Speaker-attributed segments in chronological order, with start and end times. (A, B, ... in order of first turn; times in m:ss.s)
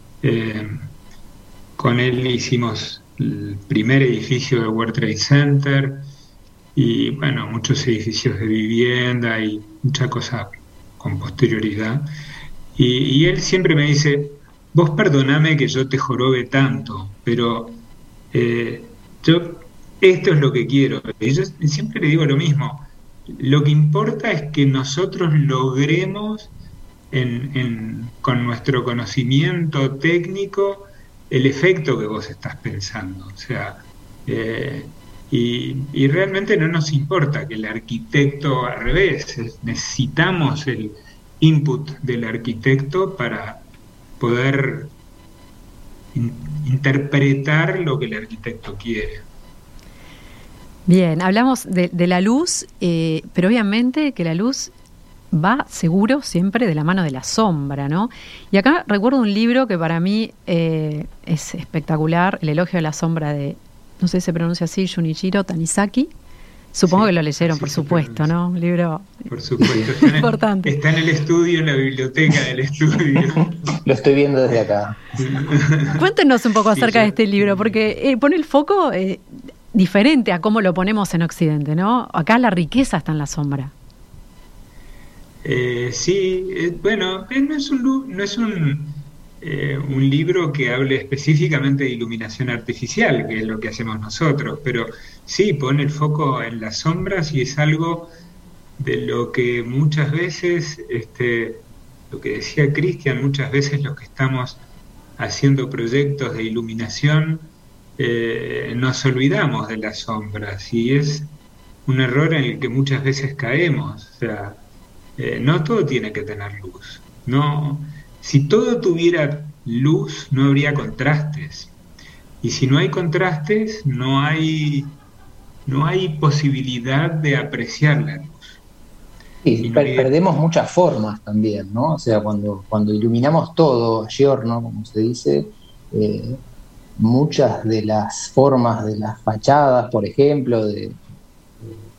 0:00.2-0:00.9 A
0:01.8-0:06.0 A
0:06.7-0:12.1 A
0:12.7-0:17.8 A
0:18.3-0:26.5 A
0:27.1-0:43.6 A
0:44.2-0:44.9 A
0:46.1-0:49.2 A
0:50.9-0:54.7 B
0:55.3-1:06.1 B
1:06.7-1:10.7 B
1:06.8-1:08.3 A
1:09.3-1:13.7 A
1:09.6-1:09.9 C
1:13.6-1:15.0 C
1:15.2-1:16.1 A
1:15.9-1:23.7 B
1:16.7-1:17.7 A
1:25.4-1:38.1 A
1:38.8-1:44.6 A
1:45.2-1:51.3 A
1:51.8-1:54.6 A
1:55.2-2:01.7 A
2:02.4-2:05.0 A
2:05.6-2:08.6 A
2:09.4-2:16.4 C
2:09.6-2:10.1 A
2:17.0-2:21.0 C